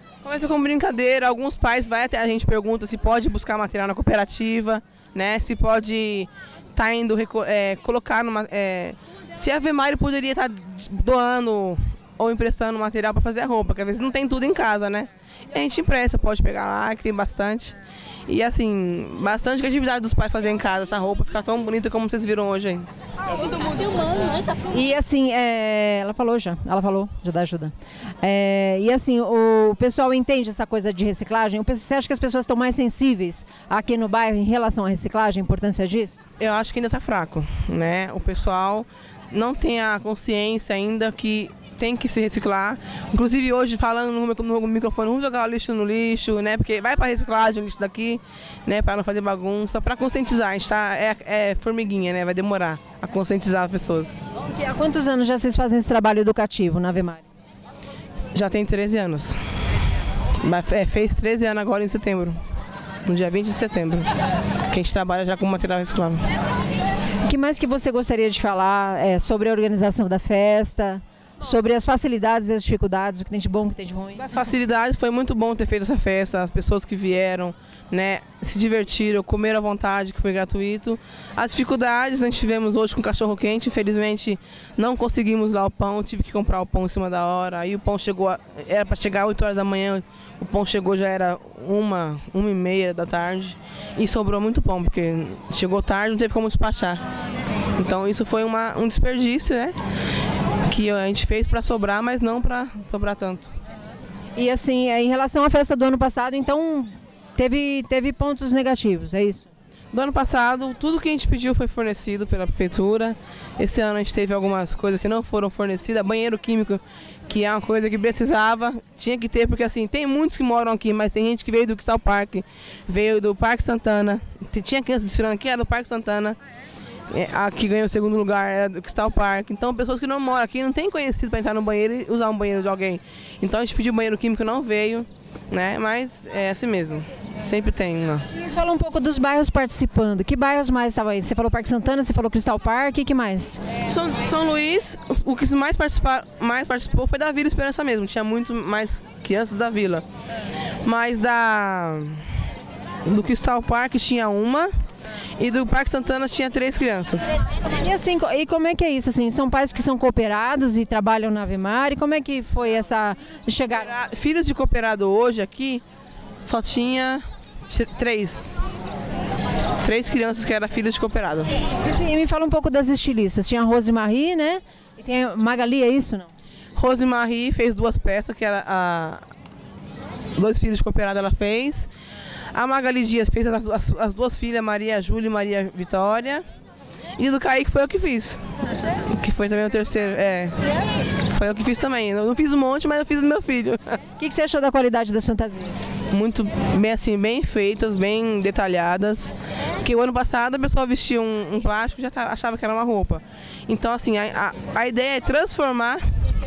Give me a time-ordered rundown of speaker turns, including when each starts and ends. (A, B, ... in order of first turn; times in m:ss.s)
0:00.2-0:22.9 A
0:24.7-0:36.2 B
0:36.4-0:54.2 A
0:54.4-0:57.2 B
0:58.3-0:59.4 A
1:00.4-1:02.4 A
1:03.0-1:04.1 A
1:04.7-1:06.2 A
1:07.2-1:14.2 B
1:14.2-1:37.0 A
1:37.8-1:39.8 A
1:40.6-1:43.5 A
1:44.3-1:49.5 B
1:49.9-2:06.4 A
2:07.1-2:18.2 A
2:18.3-2:23.6 B
2:23.8-2:30.0 A
2:30.8-2:32.3 A
2:33.0-2:34.7 A
2:35.4-2:37.4 A
2:37.6-2:43.9 B
2:43.7-2:45.8 A
2:46.4-2:48.6 A
2:49.8-2:51.5 A
2:51.8-2:56.3 B
2:56.8-2:59.2 A
3:00.3-3:01.9 A
3:02.5-3:06.4 A
3:07.2-3:14.0 A
3:14.2-3:15.8 B
3:16.1-3:26.0 A